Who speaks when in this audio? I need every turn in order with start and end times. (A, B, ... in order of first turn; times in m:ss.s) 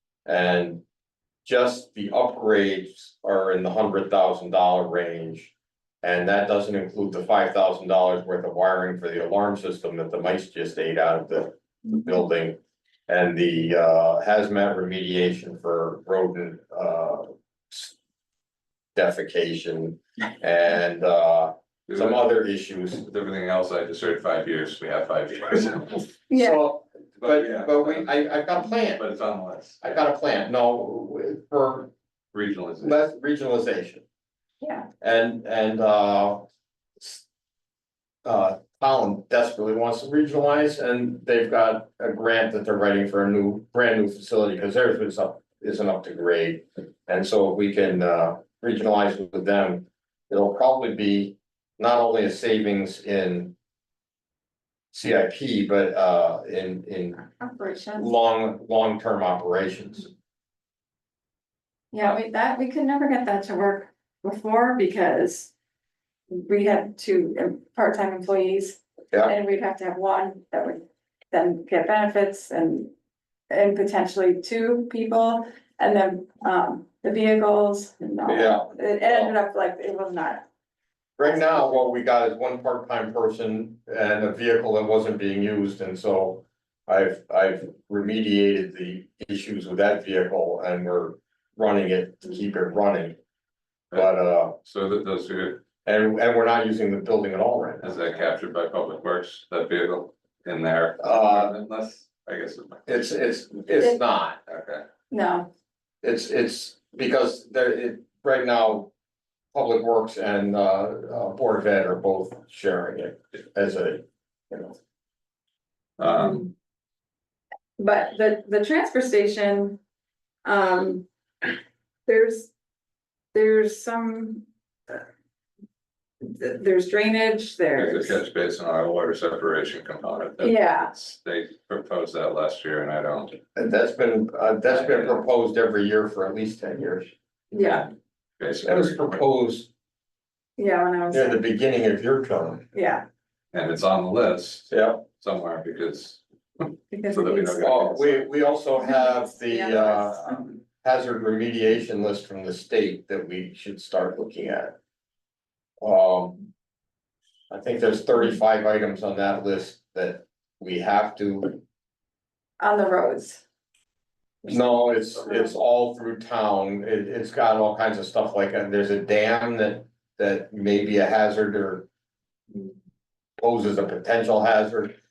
0:00.2-0:00.8 A
0:01.4-0:17.9 A
0:18.9-0:23.0 A
0:21.9-0:22.2 B
0:23.0-0:26.1 B
0:26.3-0:26.6 C
0:26.3-0:29.0 A
0:27.2-0:28.1 B
0:29.0-0:29.8 B
0:29.8-0:31.9 A
0:32.3-0:33.0 B
0:32.8-0:34.0 A
0:34.6-0:34.9 C
0:35.0-0:36.4 A
0:38.2-0:53.5 A
0:54.9-0:57.2 A
0:57.3-0:58.1 C
0:58.0-1:00.1 A
1:01.9-1:05.5 C
1:06.3-1:12.9 C
1:13.5-1:20.4 C
1:18.2-1:19.3 A
1:21.2-1:33.2 A
1:21.2-1:21.8 C
1:33.9-1:34.5 A
1:34.6-1:35.6 B
1:35.8-1:38.0 A
1:37.8-1:43.0 B
1:41.0-1:41.5 A
1:42.9-1:44.4 A
1:44.5-1:44.8 B
1:45.1-1:45.5 C
1:46.0-1:48.9 A
1:49.5-1:54.8 A
1:56.0-1:56.5 B
1:56.2-1:56.5 C
1:57.8-1:59.8 C
2:00.4-2:01.0 C
2:02.1-2:02.5 C
2:03.3-2:05.0 C
2:06.2-2:08.2 C
2:07.7-2:13.4 B
2:10.4-2:10.9 C
2:13.5-2:17.1 A
2:14.7-2:15.2 B
2:17.5-2:17.9 C
2:17.6-2:19.2 B
2:18.6-2:19.7 A
2:20.6-2:21.4 C
2:21.1-2:22.7 A
2:22.7-2:23.0 C
2:23.5-2:28.2 B
2:24.7-2:25.0 A
2:26.9-2:27.7 C
2:27.6-2:30.2 A
2:28.8-2:30.4 C
2:30.2-2:30.4 B
2:30.8-2:34.8 A
2:35.8-2:36.4 A
2:37.5-2:41.6 A
2:42.6-2:43.4 C
2:44.4-2:51.9 A
2:45.2-2:45.5 C
2:53.4-2:54.9 A